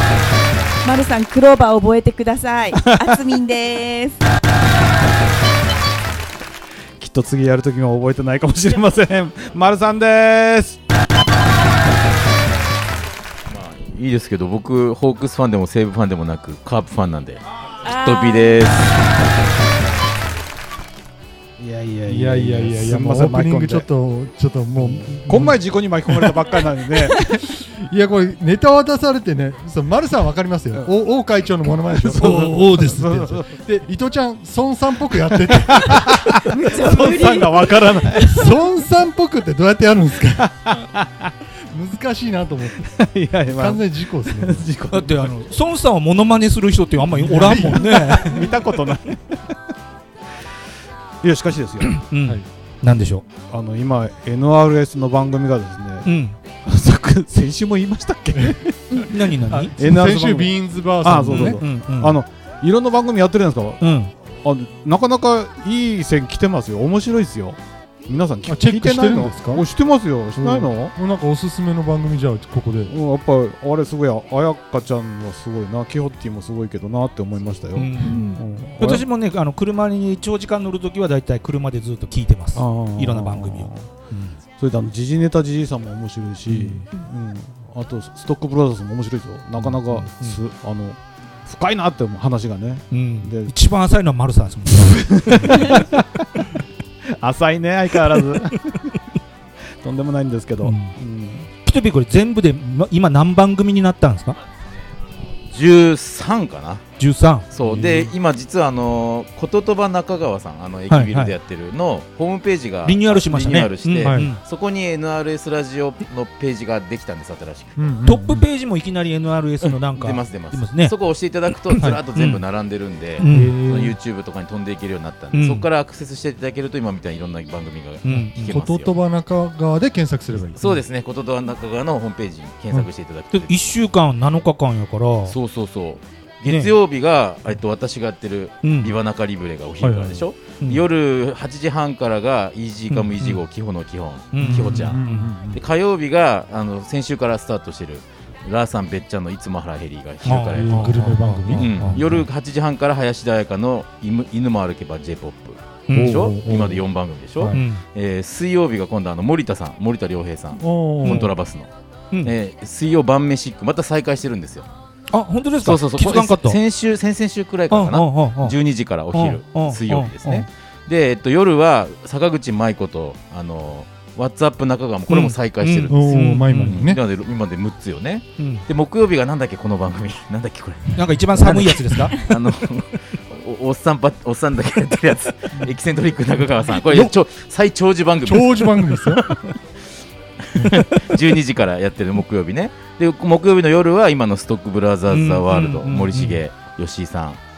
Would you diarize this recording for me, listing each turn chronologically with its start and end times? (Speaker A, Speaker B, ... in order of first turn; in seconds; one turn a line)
Speaker A: 0.8-4.2
Speaker B: 7.0-10.8
Speaker C: 13.5-18.9
Speaker A: 17.8-18.7
Speaker B: 21.6-23.9
Speaker D: 22.1-25.6
Speaker B: 24.8-27.4
Speaker D: 27.5-36.4
Speaker B: 32.0-33.5
Speaker E: 32.1-33.1
Speaker B: 35.4-38.5
Speaker A: 36.5-38.5
Speaker D: 38.2-40.8
Speaker B: 40.4-41.3
Speaker D: 41.7-42.9
Speaker B: 42.8-45.3
Speaker D: 43.5-44.7
Speaker E: 44.9-48.5
Speaker B: 47.3-49.5
Speaker B: 51.2-52.0
Speaker E: 51.9-53.2
Speaker B: 53.5-56.1
Speaker E: 56.0-56.4
Speaker B: 56.6-59.1
Speaker A: 58.9-59.1
Speaker E: 59.0-59.7
Speaker D: 59.5-61.6
Speaker B: 59.8-63.8
Speaker E: 61.3-62.1
Speaker E: 63.8-64.1
Speaker B: 64.4-70.9
Speaker D: 68.5-69.7
Speaker D: 70.3-72.9
Speaker B: 72.9-79.0
Speaker E: 77.7-84.4
Speaker A: 78.0-78.4
Speaker B: 82.5-83.9
Speaker B: 84.6-93.5
Speaker E: 86.5-86.8
Speaker E: 89.6-90.4
Speaker E: 92.9-95.8
Speaker B: 94.8-96.5
Speaker B: 97.1-98.9
Speaker B: 99.8-101.5
Speaker E: 100.6-101.0
Speaker E: 101.6-104.4
Speaker C: 105.5-106.8
Speaker E: 107.0-108.1
Speaker C: 107.5-117.8
Speaker E: 110.9-111.3
Speaker E: 112.8-114.4
Speaker D: 114.0-114.3
Speaker D: 117.8-118.5
Speaker E: 118.0-120.9
Speaker C: 119.6-128.9
Speaker E: 121.7-122.4
Speaker E: 123.2-123.5
Speaker D: 123.2-124.0
Speaker E: 125.3-125.6
Speaker E: 128.0-128.5
Speaker D: 128.4-130.8
Speaker C: 130.6-133.6
Speaker E: 133.3-135.3
Speaker C: 135.3-161.7
Speaker E: 136.5-136.7
Speaker E: 138.6-138.9
Speaker D: 139.8-140.3
Speaker E: 142.9-143.4
Speaker E: 144.3-145.3
Speaker D: 144.4-145.6
Speaker E: 150.2-152.0
Speaker D: 150.6-152.2
Speaker E: 155.9-156.2
Speaker D: 155.9-156.8
Speaker D: 157.4-157.6
Speaker E: 157.5-157.8
Speaker D: 160.6-161.3
Speaker E: 161.0-161.3
Speaker C: 162.2-164.7
Speaker E: 165.1-166.6
Speaker C: 165.6-189.2
Speaker E: 167.7-168.5
Speaker E: 169.1-170.1
Speaker E: 175.1-176.9
Speaker D: 175.9-177.0
Speaker E: 178.4-178.6
Speaker E: 180.9-182.3
Speaker D: 186.7-187.1
Speaker D: 188.2-189.2
Speaker C: 190.4-197.4
Speaker E: 195.1-196.4